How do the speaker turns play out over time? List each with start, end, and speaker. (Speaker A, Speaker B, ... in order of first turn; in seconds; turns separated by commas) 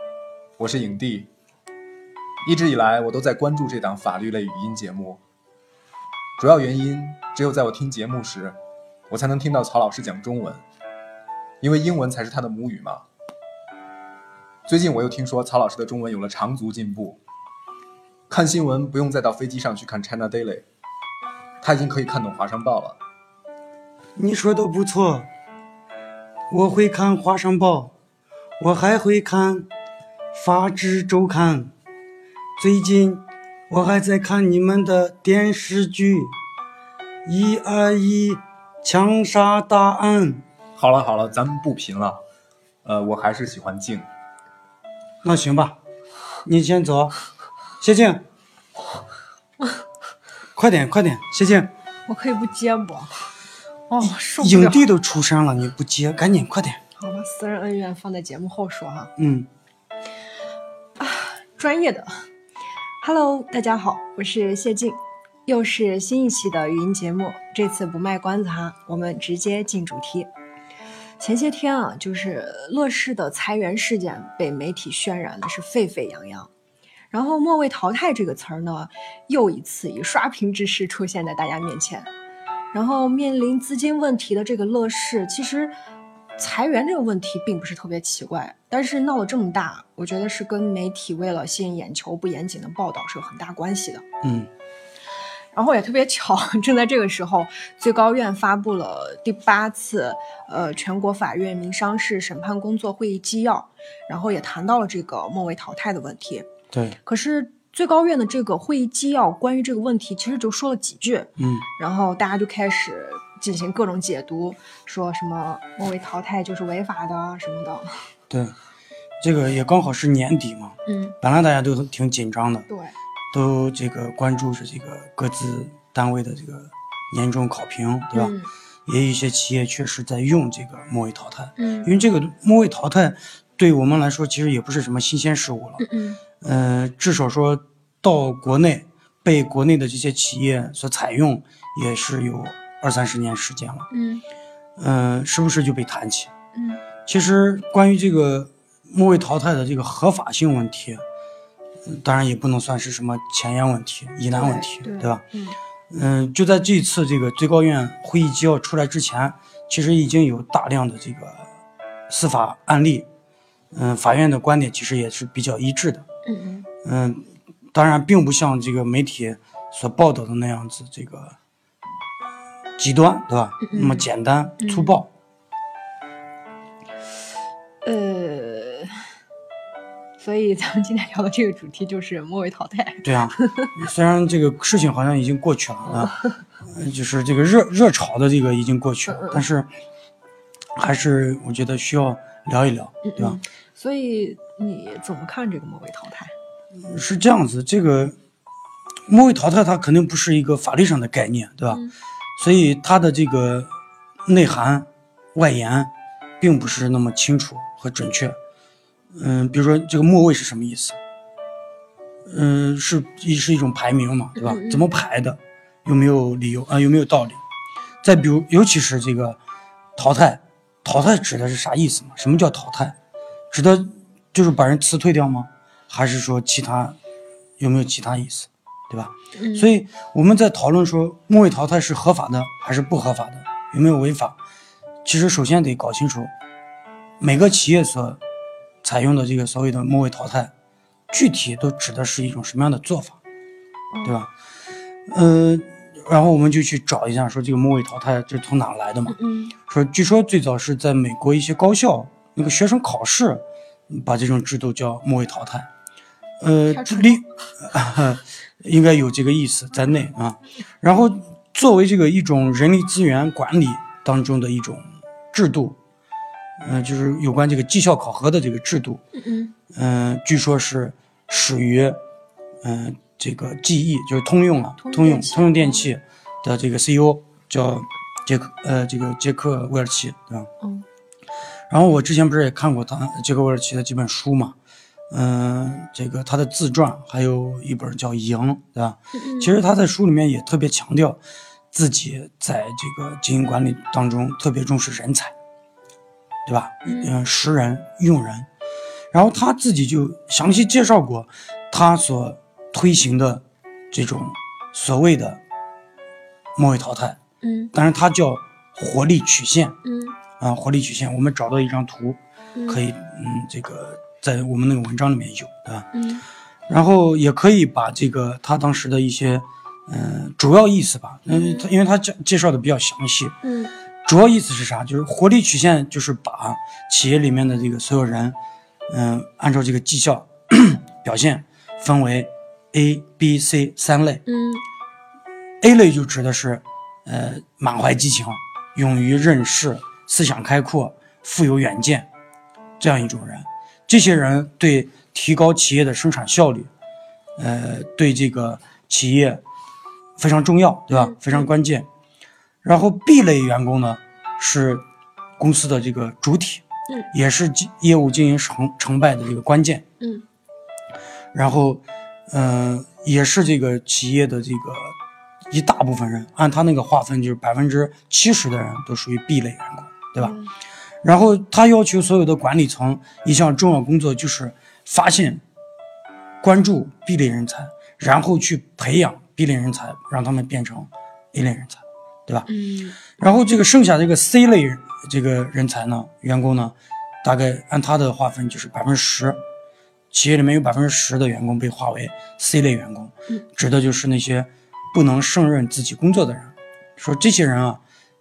Speaker A: 0.6-1.3, Speaker A: 2.5-5.2, Speaker A: 6.4-8.6, Speaker A: 9.1-10.6, Speaker A: 11.6-13.0, Speaker A: 14.7-17.2, Speaker A: 18.3-20.6, Speaker A: 21.6-23.0, Speaker B: 24.2-25.3, Speaker B: 26.5-27.9, Speaker B: 28.6-29.7, Speaker B: 30.3-31.7, Speaker B: 32.6-36.4, Speaker B: 37.2-40.4, Speaker A: 40.8-42.2, Speaker A: 42.9-44.1, Speaker B: 45.2-45.8, Speaker B: 46.5-47.1, Speaker B: 47.8-48.2, Speaker B: 50.6-51.7, Speaker C: 52.1-53.3, Speaker C: 53.9-54.9, Speaker B: 54.4-56.8, Speaker C: 57.0-59.1, Speaker B: 59.2-59.5, Speaker C: 61.0-62.2, Speaker C: 63.0-70.3, Speaker C: 71.2-76.5, Speaker C: 77.1-82.1, Speaker C: 82.7-85.7, Speaker C: 86.4-94.0, Speaker B: 94.2-94.5, Speaker C: 95.5-106.5, Speaker B: 106.7-107.0, Speaker C: 107.0-117.9, Speaker B: 111.4-111.7, Speaker B: 118.3-118.5, Speaker B: 119.2-122.7, Speaker C: 120.9-121.2, Speaker C: 122.7-123.0, Speaker B: 123.3-128.3, Speaker C: 128.1-128.5, Speaker B: 128.9-135.9, Speaker C: 131.6-131.9, Speaker C: 135.8-136.2, Speaker B: 136.4-143.9, Speaker C: 143.9-144.2, Speaker B: 144.8-146.3, Speaker C: 146.6-146.8, Speaker B: 147.1-151.0, Speaker B: 151.9-155.2, Speaker C: 154.3-155.6, Speaker B: 155.9-161.5, Speaker B: 162.1-163.1, Speaker B: 163.7-166.1, Speaker C: 166.2-166.7, Speaker B: 166.8-171.4, Speaker B: 172.8-175.1, Speaker C: 173.6-174.1, Speaker C: 174.6-175.0, Speaker C: 177.8-179.0, Speaker C: 180.2-183.7, Speaker B: 183.0-186.1, Speaker C: 186.0-186.3, Speaker B: 186.7-189.7, Speaker C: 189.1-189.4, Speaker B: 190.8-193.4, Speaker C: 193.0-196.3, Speaker B: 196.8-198.2, Speaker B: 199.1-201.8, Speaker B: 202.4-203.7, Speaker B: 204.3-208.4, Speaker B: 209.1-211.0, Speaker B: 212.3-217.4, Speaker C: 214.4-214.9, Speaker B: 218.0-219.4, Speaker B: 220.0-223.0, Speaker B: 223.5-227.0, Speaker B: 227.6-234.4, Speaker C: 229.3-229.7, Speaker B: 235.1-236.3, Speaker B: 237.2-238.2, Speaker B: 238.8-240.5, Speaker B: 241.1-243.2, Speaker C: 243.9-244.2, Speaker B: 244.1-244.3, Speaker B: 245.1-255.7, Speaker C: 249.1-249.6, Speaker B: 256.4-265.8, Speaker C: 256.7-257.2, Speaker B: 266.6-269.0, Speaker C: 269.1-269.5, Speaker B: 269.7-272.0, Speaker B: 272.6-280.5, Speaker C: 274.8-275.9, Speaker B: 281.7-284.6, Speaker B: 285.1-291.2, Speaker C: 289.1-289.5, Speaker B: 291.7-295.3, Speaker B: 296.5-298.5, Speaker C: 296.9-297.1, Speaker B: 299.1-305.4, Speaker B: 306.6-307.2, Speaker C: 307.4-307.7, Speaker B: 307.7-309.8, Speaker C: 309.8-310.2, Speaker B: 310.4-315.9, Speaker C: 312.6-312.8, Speaker C: 315.9-316.2, Speaker B: 316.7-323.4, Speaker C: 321.3-321.7, Speaker C: 323.4-323.7, Speaker B: 324.1-328.4, Speaker B: 328.9-334.2, Speaker C: 334.3-334.6, Speaker B: 335.6-342.1, Speaker B: 342.8-346.7, Speaker B: 347.4-349.4, Speaker B: 350.2-351.9, Speaker C: 350.9-351.5, Speaker B: 352.6-354.9, Speaker B: 355.4-359.9, Speaker C: 360.0-360.2, Speaker B: 361.3-365.0, Speaker B: 365.5-370.4, Speaker C: 370.2-370.5, Speaker B: 371.0-375.4, Speaker B: 376.4-382.5, Speaker C: 382.5-383.1, Speaker B: 383.1-389.4, Speaker B: 390.1-397.8